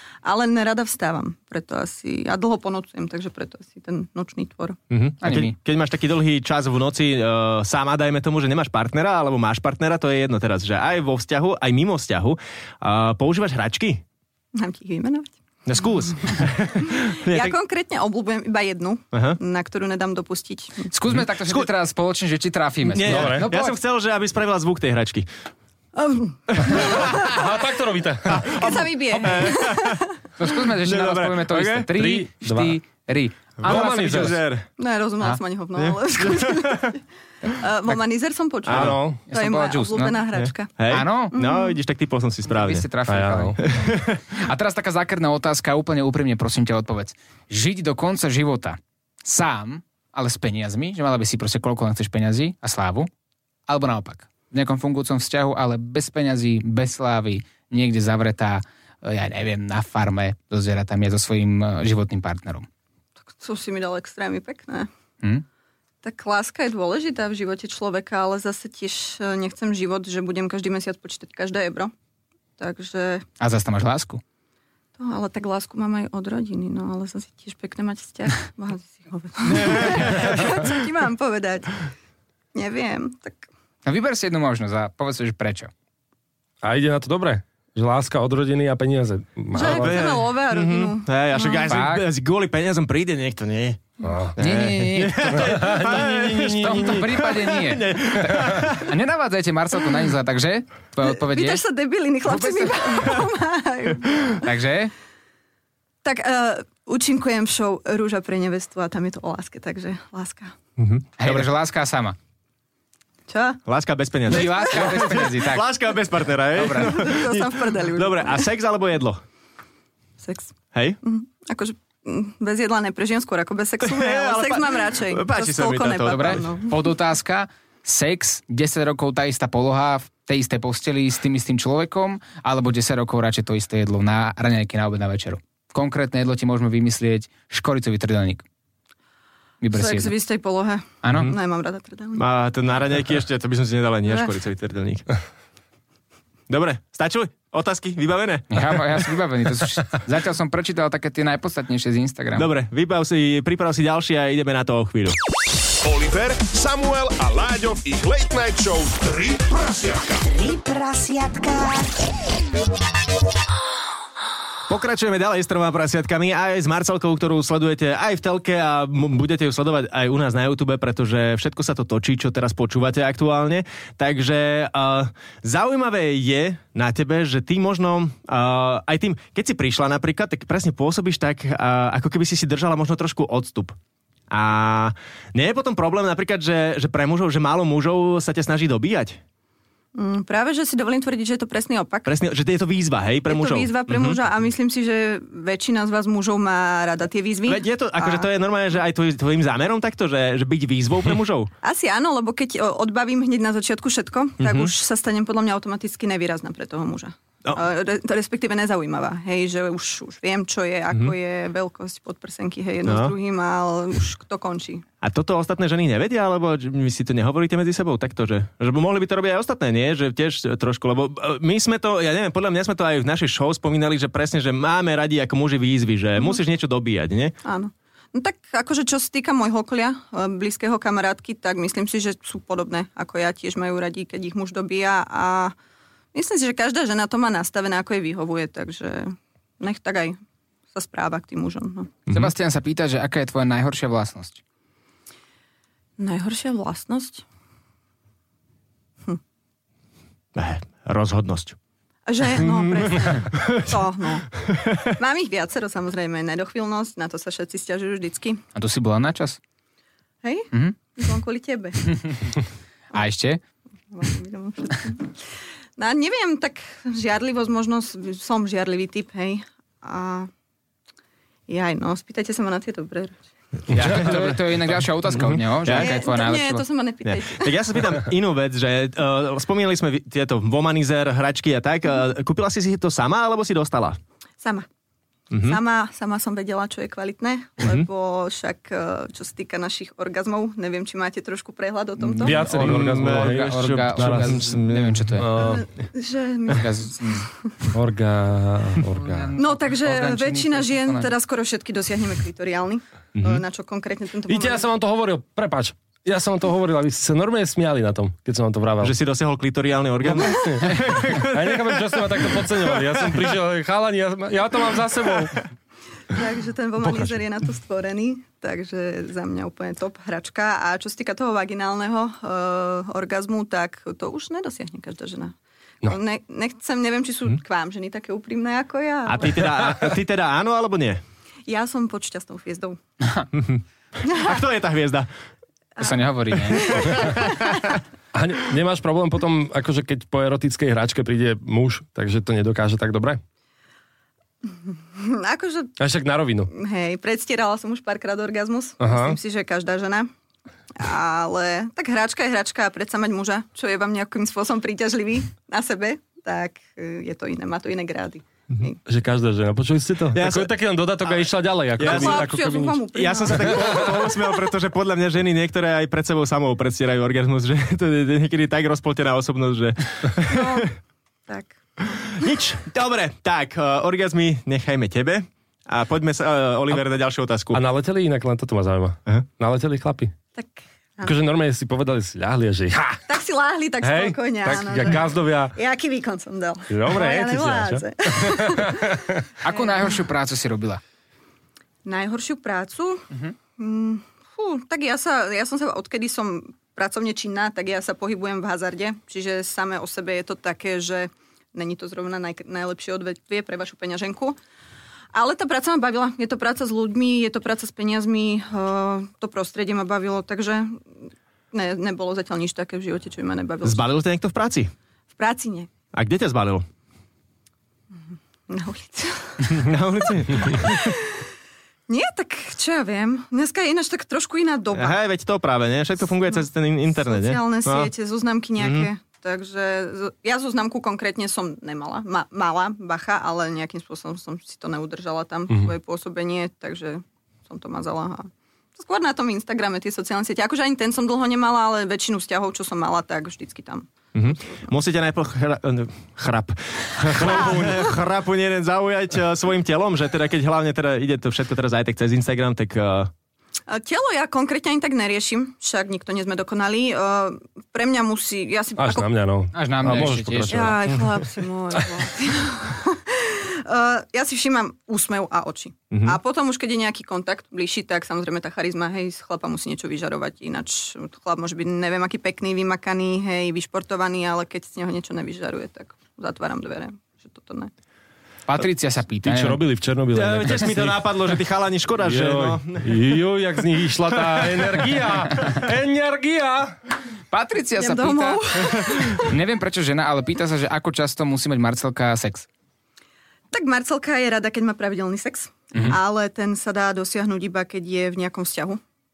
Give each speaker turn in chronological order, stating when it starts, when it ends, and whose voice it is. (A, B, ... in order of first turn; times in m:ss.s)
0:00.2-0:04.8 A
0:04.9-0:14.0 B
0:05.2-0:05.6 C
0:14.6-0:15.4 A
0:15.6-0:17.6 B
0:16.8-0:20.9 A
0:19.1-0:19.4 B
0:20.9-0:23.8 C
0:22.9-0:25.3 B
0:23.0-0:23.5 D
0:26.0-0:27.6 A
0:26.7-0:28.7 D
0:28.3-0:30.1 B
0:28.4-0:30.1 A
0:30.4-0:34.4 C
0:30.7-0:31.9 B
0:31.9-0:32.8 D
0:33.6-0:34.7 B
0:33.6-0:34.4 D
0:34.8-0:40.7 A
0:35.8-0:36.9 B
0:38.7-0:39.0 B
0:38.7-0:39.2 D
0:39.3-0:40.2 C
0:40.8-0:42.9 B
0:40.9-0:41.4 C
0:41.3-0:41.8 A
0:42.5-0:53.1 C
0:43.1-0:43.6 D
0:43.6-0:44.2 B
0:53.7-1:02.7 C
1:03.3-1:04.9 A
1:06.0-1:11.9 A
1:12.6-1:13.3 A
1:13.4-1:14.2 C
1:15.0-1:21.8 A
1:22.5-1:23.5 A
1:23.8-1:25.7 C
1:26.6-1:30.1 D
1:29.5-1:31.8 A
1:29.6-1:38.9 B
1:31.7-1:32.1 C
1:34.0-1:34.4 D
1:34.4-1:35.6 C
1:35.3-1:37.1 D
1:36.6-1:41.6 C
1:41.0-1:44.4 A
1:42.3-1:43.3 B
1:44.4-1:44.9 C
1:46.0-1:50.6 A
1:50.8-1:51.5 B
1:51.2-1:52.2 C
1:53.3-1:53.6 A
1:53.7-1:59.2 B
1:54.3-1:55.8 C
1:54.3-1:55.3 A
1:56.5-1:57.1 C
1:56.6-1:58.5 A
2:00.2-2:06.8 A
2:03.8-2:06.5 B
2:06.1-2:18.4 C
2:19.6-2:20.2 C
2:19.7-2:22.2 A
2:21.0-2:21.3 C
2:22.2-2:25.1 B
2:24.1-2:24.3 A
2:26.5-2:28.5 B
2:28.5-2:32.5 C
2:32.4-2:35.2 B
2:35.8-2:40.4 E
2:41.2-2:41.6 B
2:44.7-3:03.8 B
3:04.3-3:09.2 B
3:10.0-3:12.1 A
3:12.1-3:14.2 B
3:13.3-3:18.3 A
3:17.5-3:21.5 B
3:21.6-3:34.8 A
3:24.4-3:24.7 B
3:32.9-3:33.1 B
3:35.0-3:47.4 B
3:47.4-3:55.5 A
3:56.1-4:00.2 A
4:00.7-4:01.9 A
4:02.1-4:04.4 C
4:06.0-4:07.2 A
4:10.4-4:11.6 B
4:12.1-4:18.4 A
4:13.3-4:13.7 B
4:18.6-4:19.4 C
4:20.2-4:21.9 A
4:21.9-4:22.3 C
4:22.9-4:23.4 C
4:23.9-4:25.2 A
4:25.8-4:30.3 A
4:31.5-4:33.2 A
4:33.7-4:34.7 B
4:33.8-4:36.6 C
4:35.3-4:35.9 B
4:35.7-4:37.6 A
4:37.0-4:44.0 B
4:44.4-4:44.7 A
4:45.3-4:45.6 B
4:45.4-4:52.7 A
4:47.6-4:47.9 B
4:52.1-4:55.3 C
4:52.2-4:54.5 D
4:52.5-4:55.2 B
4:55.2-4:55.6 D
4:55.4-4:57.7 A
4:56.5-4:57.3 C
4:57.7-4:59.4 D
4:59.0-5:01.1 C
4:59.4-5:04.7 A
5:03.2-5:03.4 B
5:04.3-5:09.0 D
5:08.8-5:13.2 B
5:10.0-5:15.4 D
5:16.1-5:29.6 A
5:16.8-5:17.2 D
5:29.1-5:31.0 B
5:31.5-5:32.8 A
5:33.3-5:35.1 B
5:35.8-5:37.6 A
5:35.8-5:37.1 C
5:36.6-5:37.6 B
5:38.1-5:43.2 D
5:44.5-5:45.8 A
5:45.8-5:46.5 D
5:46.5-5:50.1 A
5:48.8-5:49.2 D
5:50.8-5:58.8 A
5:58.9-6:02.9 D
6:00.1-6:00.5 B
6:01.8-6:02.3 B
6:01.8-6:04.1 A
6:02.9-6:10.7 B
6:03.5-6:04.1 D
6:10.2-6:10.7 A
6:11.3-6:12.2 A
6:12.1-6:17.6 B
6:17.5-6:20.1 D
6:20.4-6:21.1 A
6:21.0-6:23.0 D
6:23.1-6:29.0 A
6:23.8-6:25.6 D
6:26.7-6:29.3 D
6:29.4-6:30.8 C
6:31.8-6:44.4 A
6:45.1-6:53.9 A
6:53.6-6:54.7 B
6:55.2-6:55.7 A
6:55.9-6:56.6 B
6:58.5-7:01.3 A
6:59.5-7:00.9 B
7:01.9-7:05.0 A
7:04.8-7:07.9 B
7:06.3-7:24.7 A
7:08.6-7:08.9 B
7:24.2-7:33.1 B
7:33.7-7:39.1 A
7:38.8-7:41.3 D
7:39.5-7:40.8 C
7:40.5-7:57.7 A
7:45.9-7:46.2 B
7:58.5-7:59.6 C
7:59.2-8:01.3 D
8:00.2-8:03.0 B
8:02.0-8:06.8 D
8:04.2-8:04.8 B
8:07.3-8:12.5 C
8:07.8-8:09.3 A
8:13.5-8:18.8 A